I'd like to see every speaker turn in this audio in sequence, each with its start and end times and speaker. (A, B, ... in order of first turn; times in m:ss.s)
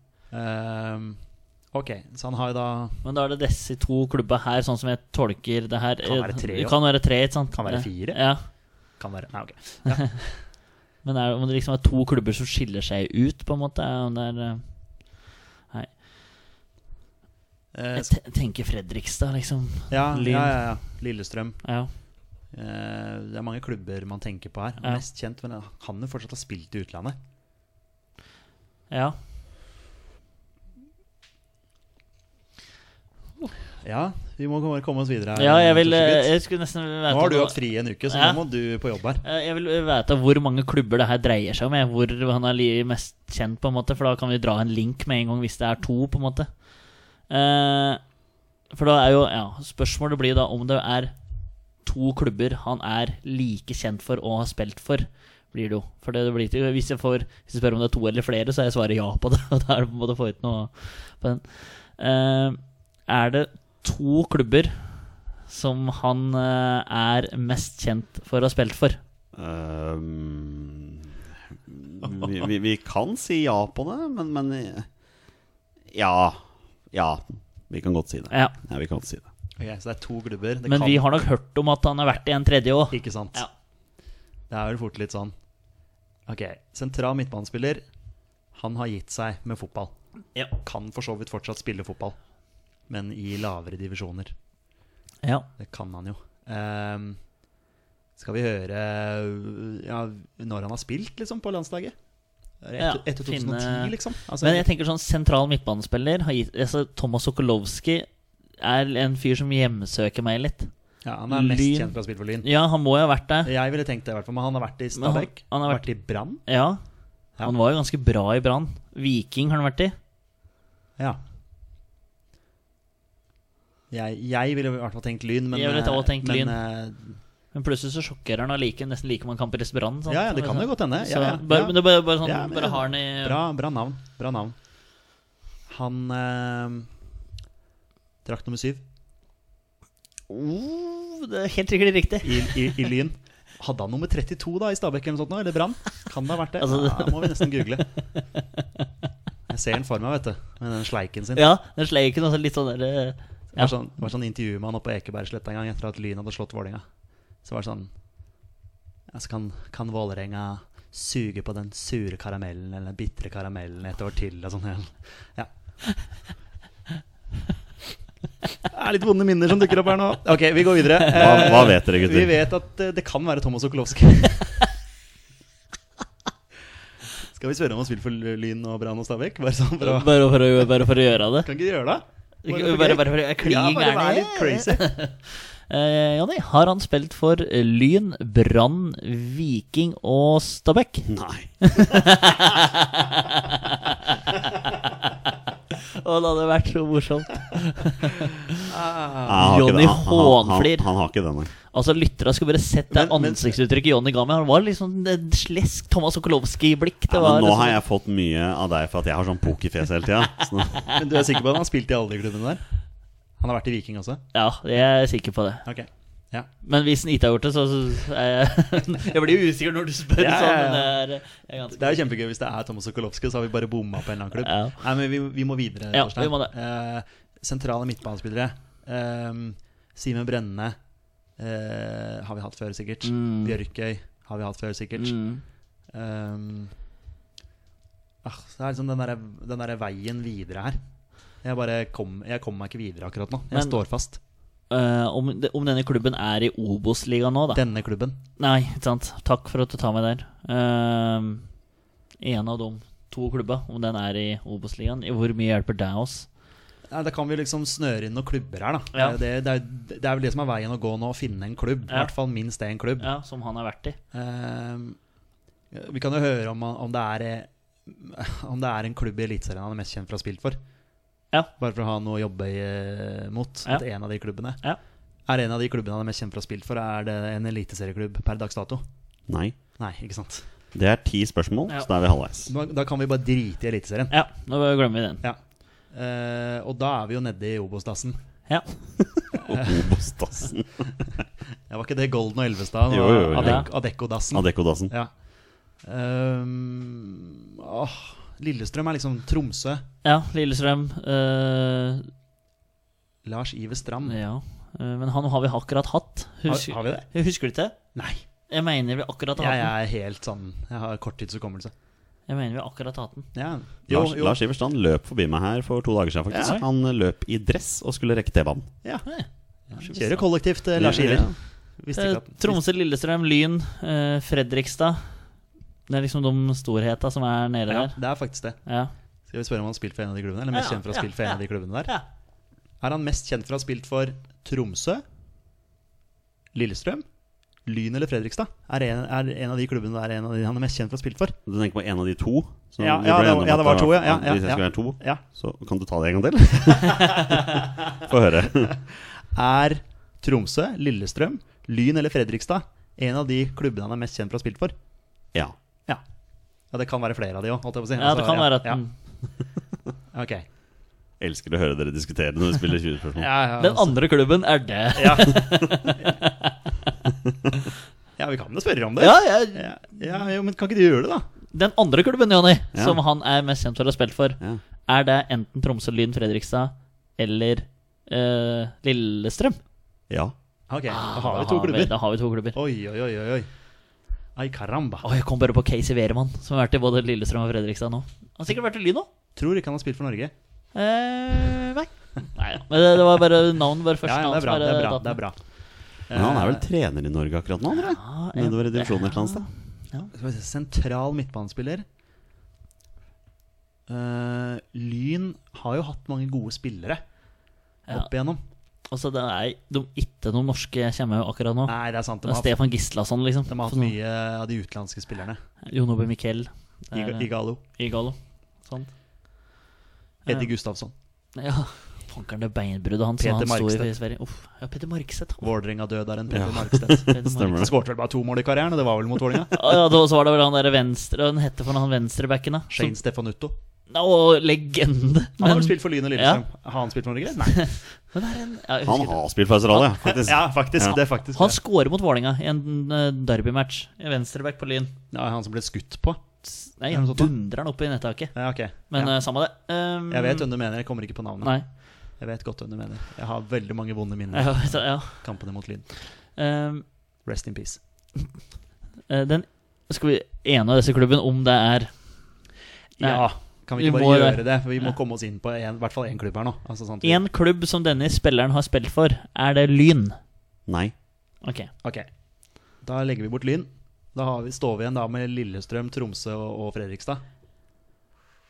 0:00.3-0:01.2 A
0:01.7-0:03.0 A
0:03.0-0:08.4 B
0:06.0-0:06.8 A
0:07.5-0:08.2 A
0:09.0-0:10.3 A
0:11.0-0:14.6 B
0:17.7-0:18.1 A
0:17.9-0:20.6 B
0:19.9-0:21.6 A
0:21.6-0:21.9 B
0:22.5-0:27.2 A
0:28.9-0:29.2 B
0:33.8-0:36.3 A
0:35.4-0:37.6 B
0:37.1-0:39.2 A
0:38.1-0:38.4 B
0:39.2-0:46.5 B
0:47.3-0:48.0 B
0:48.7-0:51.2 B
0:51.8-1:09.0 B
1:09.3-1:14.9 C
1:15.9-1:19.2 C
1:19.6-1:21.0 A
1:20.7-1:23.5 B
1:22.9-1:23.4 A
1:24.5-1:25.3 A
1:26.3-1:27.8 A
1:28.5-1:29.9 A
1:30.6-1:32.2 A
1:32.9-1:34.3 A
1:35.2-1:35.5 B
1:35.6-1:37.2 A
1:38.2-1:41.9 A
1:42.6-1:44.6 A
1:42.8-1:48.1 B
1:48.6-1:50.7 B
1:51.0-1:52.4 A
1:51.3-1:53.5 B
1:53.4-1:56.4 A
1:55.0-1:55.8 B
1:56.4-1:56.8 B
1:57.4-1:59.9 B
2:03.9-2:07.2 A
2:05.5-2:06.6 B
2:07.5-2:13.4 B
2:10.1-2:14.5 A
2:15.7-2:16.9 A
2:18.2-2:18.8 A
2:20.3-2:22.9 B
2:22.2-2:27.9 A
2:26.6-2:27.8 B
2:28.4-2:28.8 B
2:29.5-2:31.5 A
2:31.3-2:33.7 B
2:33.6-2:36.8 A
2:37.4-2:37.9 A
2:39.1-2:45.5 A
2:48.7-2:54.6 A
2:51.1-2:52.4 C
2:57.3-3:00.6 A
2:59.8-3:01.5 B
3:01.4-3:04.9 A
3:02.4-3:18.5 B
3:11.1-3:12.2 C
3:18.7-3:19.4 A
3:19.2-3:21.5 C
3:19.4-3:20.9 B
3:21.7-3:27.8 B
3:22.9-3:23.5 A
3:27.1-3:30.9 C
3:30.9-3:32.6 A
3:33.4-3:34.2 A
3:34.3-3:35.6 B
3:35.6-3:36.5 A
3:36.6-3:42.0 B
3:40.2-3:41.0 A
3:41.7-3:50.8 A
3:44.4-3:44.8 B
3:45.9-3:46.5 B
3:51.4-3:55.1 A
3:53.0-3:53.6 B
3:55.0-3:55.4 B
3:55.9-3:56.7 A
3:58.2-4:00.8 A
4:01.4-4:04.2 A
4:03.5-4:03.8 B
4:04.7-4:07.6 B
4:07.5-4:08.2 A
4:08.4-4:11.4 B
4:12.2-4:16.3 B
4:16.9-4:23.1 A
4:23.0-4:24.0 B
4:24.1-4:25.0 A
4:25.7-4:30.6 A
4:31.6-4:34.6 A
4:35.3-4:38.8 A
4:39.3-4:39.6 C
4:39.8-4:40.4 A
4:40.7-4:42.5 C
4:42.5-4:44.1 A
4:44.1-4:45.2 B
4:45.9-4:48.2 A
4:49.3-4:50.9 C
4:49.3-4:49.9 A
4:51.7-4:55.1 A
4:52.9-4:53.7 C
4:53.4-4:53.7 B
4:54.3-4:54.9 C
4:55.8-4:59.8 A
5:00.0-5:02.1 B
5:03.2-5:04.2 A
5:04.0-5:07.8 B
5:06.5-5:07.1 A
5:07.9-5:08.2 A
5:08.5-5:09.7 B
5:09.4-5:11.7 A
5:12.3-5:13.3 B
5:13.3-5:14.4 A
5:13.9-5:18.7 C
5:16.3-5:16.6 A
5:19.1-5:20.3 B
5:19.7-5:22.6 A
5:20.8-5:21.3 C
5:21.9-5:25.2 B
5:25.9-5:27.9 B
5:27.7-5:28.6 A
5:28.6-5:28.9 B
5:29.3-5:31.9 A
5:30.5-5:32.0 B
5:32.8-5:35.0 A
5:36.5-5:37.0 A
5:37.6-5:41.4 A
5:41.4-5:48.7 C
5:42.8-5:45.2 A
5:49.3-5:54.7 A
5:56.7-5:58.8 A
5:58.0-5:58.9 B
6:00.1-6:00.4 A
6:01.2-6:03.3 C
6:03.2-6:04.0 A
6:03.6-6:06.5 B
6:04.9-6:06.0 A
6:08.2-6:11.2 A
6:09.0-6:10.1 B
6:11.5-6:19.6 B
6:12.7-6:13.0 C
6:20.7-6:21.9 A
6:20.9-6:22.6 B
6:22.5-6:23.5 A
6:24.4-6:25.0 A
6:25.0-6:29.1 B
6:29.4-6:30.3 A
6:30.7-6:35.2 B
6:34.0-6:35.4 A
6:36.1-6:36.6 A
6:36.1-6:39.5 C
6:37.7-6:40.1 B
6:40.1-6:41.8 A
6:43.9-6:47.0 A
6:47.9-6:48.4 A
6:48.9-6:53.9 B
6:51.7-6:52.5 A
6:53.5-6:55.4 A
6:55.6-6:58.9 B
6:56.9-6:57.6 A
7:00.2-7:00.5 B
7:00.2-7:00.9 A
7:01.3-7:05.5 B
7:03.2-7:03.9 A
7:05.4-7:09.8 A
7:06.3-7:07.7 C
7:07.1-7:07.7 B
7:09.5-7:12.9 B
7:12.7-7:13.5 A
7:13.9-7:16.4 B
7:15.4-7:17.7 A
7:17.4-7:19.2 B
7:18.8-7:21.0 C
7:19.8-7:21.6 A
7:21.3-7:24.9 B
7:25.1-7:26.2 A
7:26.4-7:28.3 B
7:26.9-7:27.3 A
7:28.3-7:29.2 A
7:28.9-7:30.4 B
7:30.1-7:35.9 A
7:34.3-7:35.2 B
7:36.3-7:36.8 B
7:37.2-7:37.8 A
7:39.1-7:42.0 B
7:43.0-7:47.2 A
7:43.0-7:43.2 B
7:43.8-7:44.9 B
7:47.0-7:50.2 B
7:50.7-7:50.9 C
7:51.4-7:51.7 B
7:52.8-7:57.2 A